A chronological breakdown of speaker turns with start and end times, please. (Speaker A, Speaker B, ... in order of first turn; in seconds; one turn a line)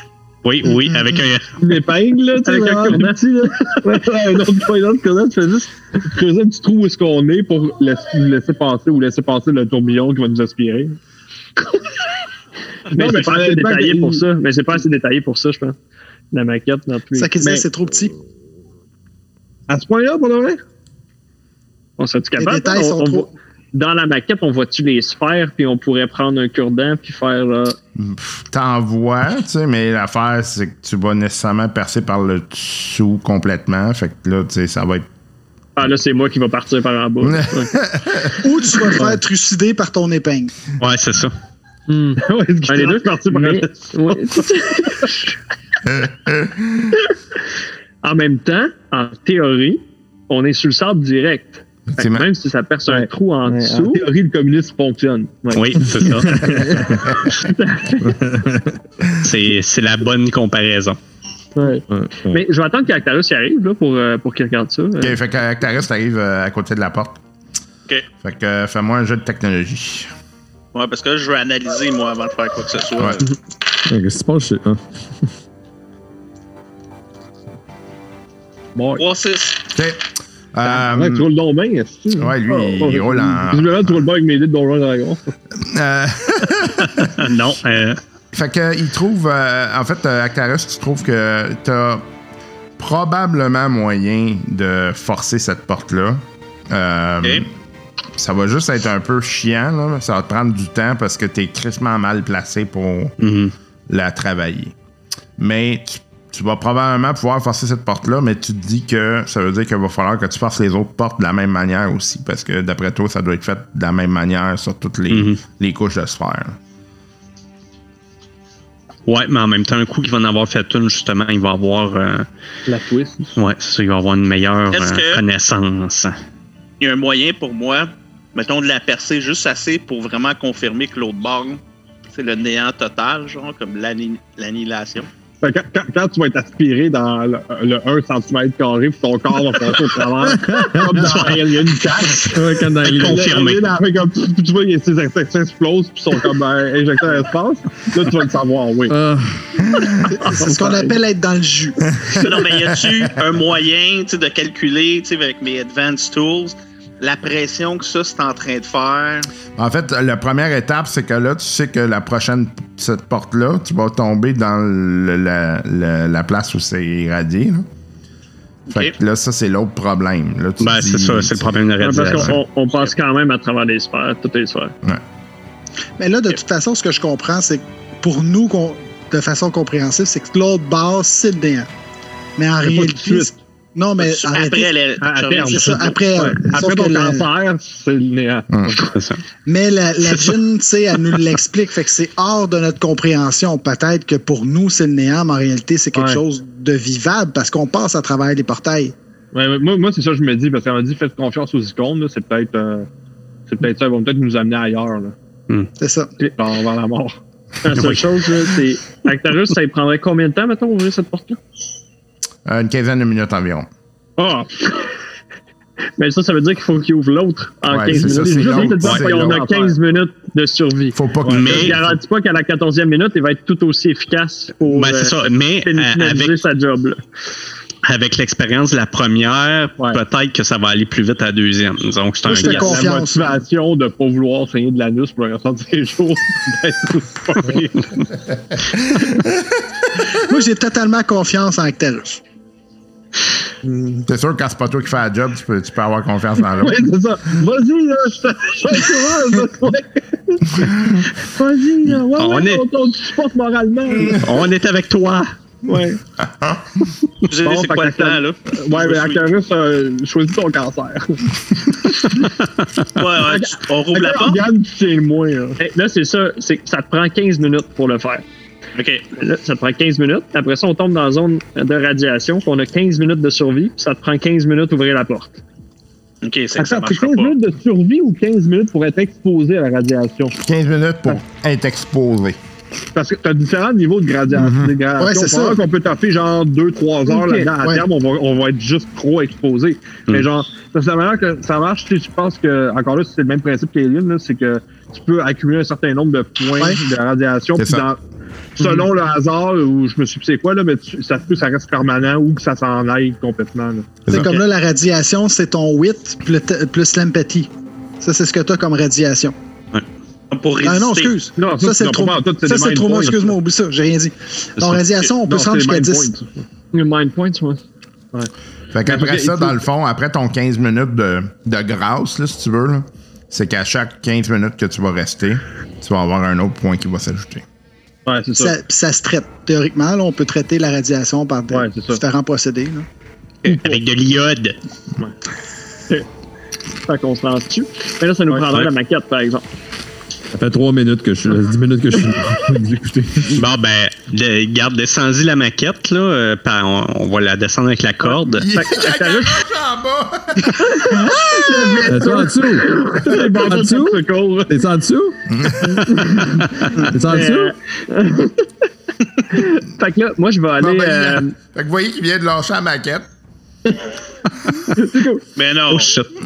Speaker A: 0.4-1.4
Speaker B: 1.6-11.0
Speaker C: 2.4-4.0
Speaker B: 12.9-14.2
Speaker C: 12.9-15.8
Speaker C: 16.3-17.3
Speaker D: 17.1-18.1
Speaker B: 17.4-17.7
Speaker B: 19.7-20.6
Speaker C: 22.0-27.8
Speaker D: 22.4-23.3
Speaker E: 27.9-35.0
Speaker C: 35.8-37.8
Speaker E: 37.2-38.3
Speaker D: 38.4-40.5
Speaker A: 40.8-41.3
Speaker C: 41.9-45.3
Speaker B: 42.1-45.2
Speaker E: 45.9-46.9
Speaker C: 48.0-54.0
Speaker E: 51.9-52.2
Speaker B: 52.9-56.8
Speaker A: 55.5-56.6
Speaker F: 56.2-57.0
Speaker C: 57.2-58.5
Speaker F: 58.0-58.7
Speaker A: 59.2-61.0
Speaker F: 61.9-62.4
Speaker C: 62.3-65.2
Speaker E: 65.0-67.2
Speaker E: 68.2-70.1
Speaker G: 70.7-73.3
Speaker E: 73.0-73.2
Speaker F: 73.9-75.3
Speaker B: 78.7-79.0
Speaker G: 78.9-79.6
Speaker E: 79.7-81.3
Speaker B: 80.8-85.2
Speaker E: 82.2-84.1
Speaker E: 85.5-87.1
Speaker A: 87.0-88.0
Speaker E: 88.3-92.0
Speaker E: 92.8-97.5
Speaker E: 98.1-103.1
Speaker A: 103.2-103.5
Speaker E: 103.9-104.7
Speaker E: 105.4-116.6
Speaker A: 115.1-115.4
Speaker A: 119.1-122.3
Speaker B: 122.7-123.3
Speaker A: 123.3-126.2
Speaker G: 124.7-125.2
Speaker G: 126.8-131.6
Speaker G: 132.1-135.1
Speaker B: 135.4-148.9
Speaker F: 140.3-141.3
Speaker F: 142.1-143.2
Speaker A: 142.8-143.7
Speaker F: 148.9-149.4
Speaker E: 149.7-150.1
Speaker C: 149.8-150.9
Speaker D: 150.1-151.9
Speaker E: 151.9-153.1
Speaker G: 152.1-159.3
Speaker E: 159.6-167.7
Speaker G: 168.7-168.9
Speaker E: 168.7-171.6
Speaker A: 170.6-172.4
Speaker C: 171.8-174.7
Speaker E: 172.1-172.4
Speaker D: 176.0-181.7
Speaker D: 182.4-184.8
Speaker B: 182.6-183.3
Speaker G: 184.0-185.9
Speaker B: 185.0-188.9
Speaker D: 185.4-187.3
Speaker E: 188.5-188.8
Speaker A: 188.9-189.2
Speaker D: 189.4-198.9
Speaker A: 190.0-190.4
Speaker B: 195.9-196.2
Speaker B: 199.3-202.9
Speaker B: 203.5-205.1
Speaker D: 205.8-206.1
Speaker B: 206.3-207.2
Speaker C: 207.6-211.4
Speaker E: 212.4-213.7
Speaker C: 214.2-214.9
Speaker C: 216.0-227.0
Speaker E: 217.7-219.5
Speaker B: 217.9-219.8
Speaker E: 220.9-221.8
Speaker B: 221.2-221.6
Speaker A: 221.3-221.8
Speaker A: 224.7-226.4
Speaker A: 227.8-232.8
Speaker D: 232.2-233.3
Speaker B: 232.3-238.0
Speaker E: 238.5-239.5
Speaker D: 240.2-242.2
Speaker B: 243.6-244.0
Speaker E: 244.1-246.8
Speaker B: 246.5-254.2
Speaker E: 250.7-251.0
Speaker A: 252.1-252.6
Speaker A: 254.1-255.3
Speaker B: 255.6-256.0
Speaker E: 256.2-256.9
Speaker G: 257.3-259.3
Speaker B: 257.4-261.2
Speaker G: 262.9-264.4
Speaker B: 263.2-265.6
Speaker C: 265.6-268.2
Speaker G: 268.8-269.1
Speaker C: 269.2-275.4
Speaker G: 276.2-277.3
Speaker B: 276.6-280.4
Speaker E: 280.4-282.4
Speaker B: 282.9-298.0
Speaker E: 284.3-284.7
Speaker D: 285.0-285.6
Speaker D: 287.1-287.8
Speaker E: 297.6-297.9
Speaker B: 298.6-304.0
Speaker E: 304.1-304.4
Speaker D: 304.1-309.4
Speaker G: 310.3-311.2
Speaker D: 310.6-316.1
Speaker B: 311.4-313.3
Speaker B: 314.7-316.4
Speaker C: 316.7-317.6
Speaker E: 318.7-327.4
Speaker B: 318.8-319.6
Speaker B: 328.1-328.5
Speaker D: 328.4-332.9
Speaker B: 331.5-332.0
Speaker A: 333.4-334.6
Speaker B: 333.5-333.8
Speaker C: 336.9-339.4
Speaker F: 340.3-343.4
Speaker A: 343.3-348.5
Speaker E: 348.4-352.1
Speaker C: 348.5-349.4
Speaker C: 350.7-351.0
Speaker B: 351.0-354.6
Speaker F: 351.8-352.8
Speaker C: 352.1-353.6
Speaker F: 353.4-355.2
Speaker E: 355.3-355.9
Speaker C: 355.9-356.3
Speaker F: 356.8-357.5
Speaker C: 357.0-358.4
Speaker C: 359.3-361.3
Speaker E: 360.6-363.1
Speaker C: 364.7-365.2
Speaker G: 365.3-365.9
Speaker A: 365.7-366.1